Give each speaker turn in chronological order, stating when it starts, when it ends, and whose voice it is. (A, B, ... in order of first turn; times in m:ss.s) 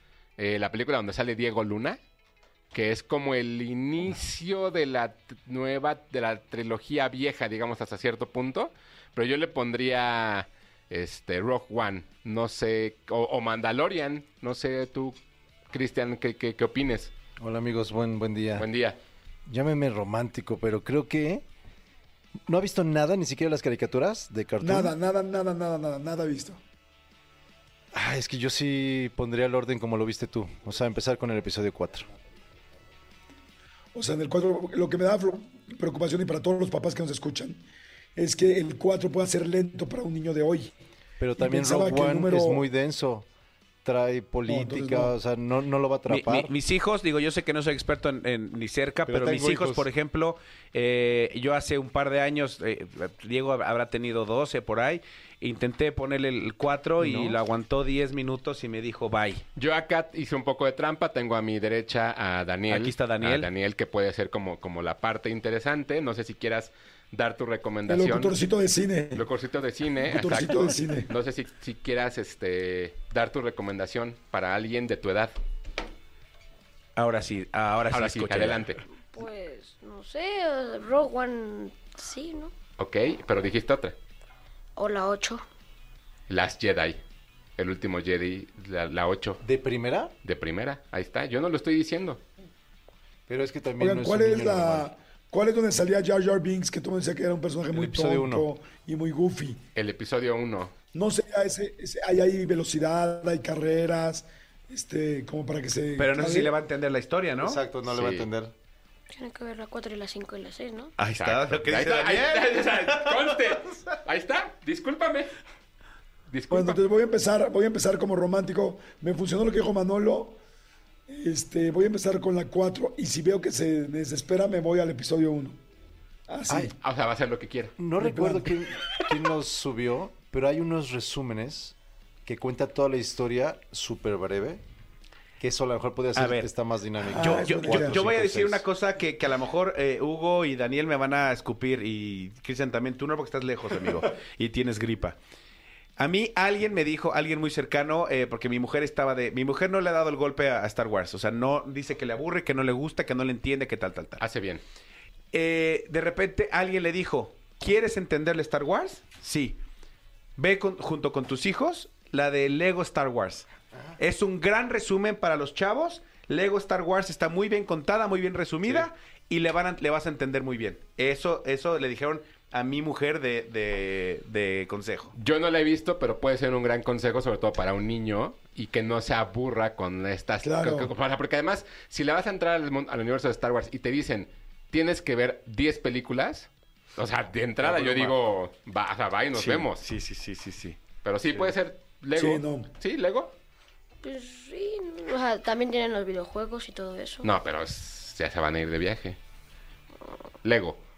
0:00.4-0:02.0 A
0:02.7-0:15.2 A
0:15.7-0:17.1 A
0:17.4-0:18.7 B
0:18.6-0:19.0 A
0:19.5-0:21.4 B
0:22.5-0:24.9 B
0:24.6-0:26.6 C
0:27.9-0:32.1 B
0:33.9-0:37.6 C
0:38.2-0:40.7 C
0:41.2-0:43.2 B
0:41.4-0:42.6 C
0:43.8-0:46.5 B
0:44.5-0:45.1 C
0:46.1-0:59.4 D
0:49.0-0:49.9 B
0:57.0-0:57.3 B
0:59.6-1:08.3 A
1:02.7-1:03.5 D
1:07.8-1:09.3 C
1:09.1-1:15.3 A
1:10.0-1:11.1 C
1:17.0-1:18.7 D
1:17.9-1:18.8 A
1:19.1-1:22.5 E
1:22.8-1:24.0 A
1:24.8-1:25.4 E
1:26.3-1:27.0 A
1:27.6-1:29.4 A
1:29.4-1:30.1 B
1:30.2-1:32.2 A
1:33.3-1:34.9 B
1:33.8-1:39.6 C
1:37.7-1:38.5 B
1:39.7-1:40.7 A
1:40.9-1:46.5 C
1:46.0-1:47.6 D
1:47.4-1:48.5 B
1:47.8-1:48.3 A
1:49.1-1:50.9 E
1:51.0-1:53.6 D
1:51.1-1:55.3 A
1:56.3-1:56.8 A
1:56.5-2:00.4 C
2:01.1-2:05.6 C
2:06.3-2:06.7 C
2:06.8-2:07.7 A
2:07.8-2:14.6 B
2:08.0-2:08.6 C
2:15.4-2:18.6 B
2:16.1-2:16.5 D
2:17.1-2:18.0 C
2:17.1-2:25.2 D
2:26.0-2:34.3 D
2:34.2-2:34.6 A
2:35.3-2:39.6 D
2:40.4-2:43.4 D
2:44.0-2:55.1 D
2:55.2-3:09.8 A
3:00.4-3:00.9 C
3:07.6-3:08.2 D
3:09.3-3:11.5 D
3:11.0-3:13.3 A
3:12.1-3:12.7 C
3:14.0-3:17.3 E
3:17.2-3:19.2 A
3:20.4-3:20.8 A